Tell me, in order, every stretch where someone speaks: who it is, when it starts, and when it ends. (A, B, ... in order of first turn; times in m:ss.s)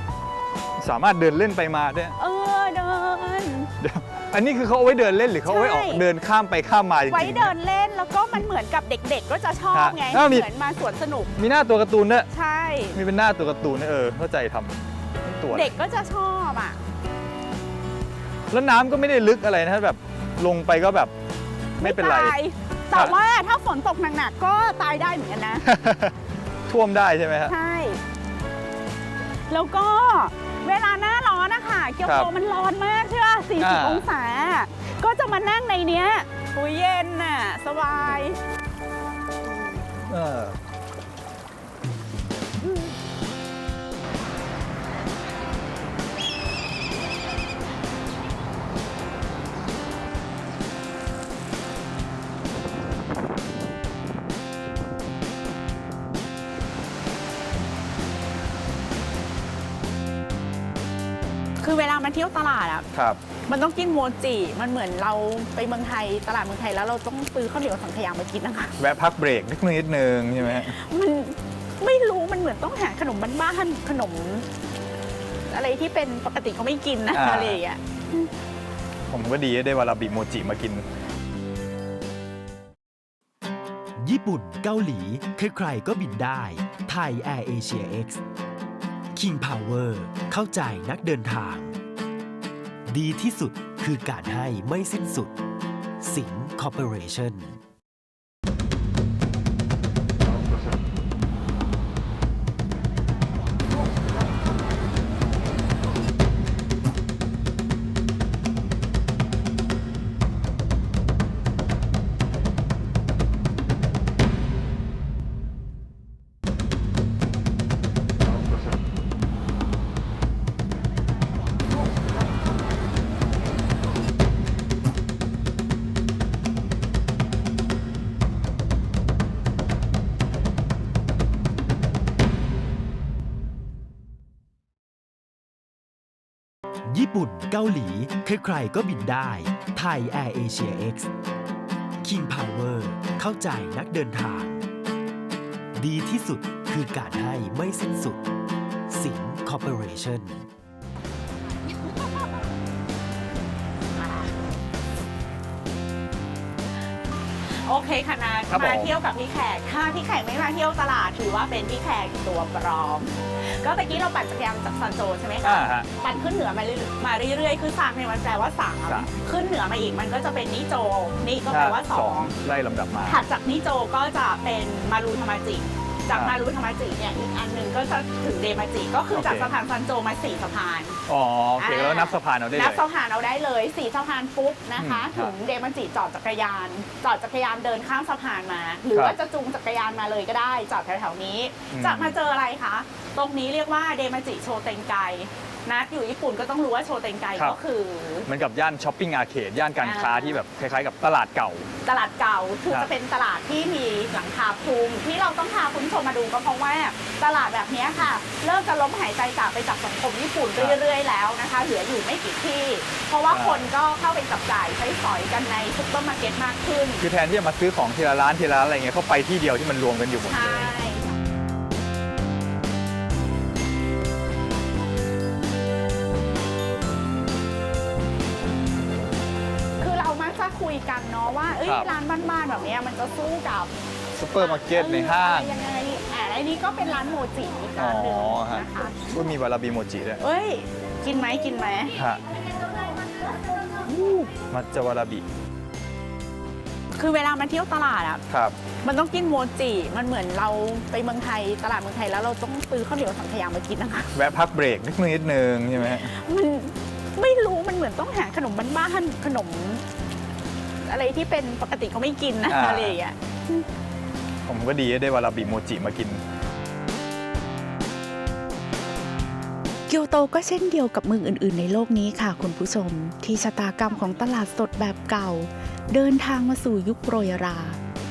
0:00.8-0:02.2 A
0:02.2-0:03.7 B
0:03.8-0:07.5 A
0:05.5-0:06.0 B
0:07.1-0:11.3 B
0:09.7-0:10.5 A
0:11.4-0:12.3 A
0:12.3-0:13.0 B
0:12.9-0:15.8 A
0:15.5-0:16.8 B
0:18.5-0:21.1 A
0:21.8-0:22.4 A
0:21.8-0:25.6 B
0:25.6-0:26.2 A
0:26.7-0:27.5 A
0:27.5-0:28.0 B
0:29.5-0:38.4 B
0:33.6-0:34.1 A
0:40.0-0:40.6 A
1:01.6-1:02.9 B
1:02.9-1:03.2 A
1:03.5-1:08.8 B
1:08.8-1:10.8 A
1:10.5-1:14.5 B
1:15.5-1:18.3 B
1:17.1-1:17.6 A
1:19.1-1:20.9 A
1:24.0-1:28.2 C
1:29.2-1:31.8 C
1:32.9-1:35.3 C
1:36.0-1:37.6 C
2:16.8-2:21.1 C
2:22.0-2:24.7 C
2:25.8-2:28.2 C
2:28.9-2:30.5 C
2:31.9-2:32.4 B
2:34.0-2:34.3 B
2:37.4-2:52.3 B
2:38.5-2:38.9 A
2:45.4-2:45.9 A
2:51.5-2:53.2 A
2:53.0-3:01.0 B
2:59.1-2:59.5 A
3:01.1-3:02.8 A
3:01.6-3:18.3 B
3:04.8-3:05.4 A
3:11.7-3:12.2 A
3:18.3-3:21.7 A
3:19.8-3:20.4 B
3:21.8-3:37.0 B
3:33.3-3:33.6 A
3:37.0-3:40.7 A
3:40.3-3:41.2 B
3:49.8-3:53.7 B
3:54.2-3:55.6 A
3:54.4-3:59.1 B
3:57.8-4:00.2 A
4:00.2-4:02.0 B
4:02.0-4:02.2 A
4:03.9-4:04.3 B
4:04.3-4:05.3 A
4:06.9-4:08.2 B
4:08.3-4:08.6 A
4:08.8-4:14.1 B
4:14.1-4:16.1 A
4:15.8-4:19.8 B
4:20.8-4:23.7 B
4:22.5-4:23.0 A
4:24.4-4:26.2 A
4:29.9-4:37.8 D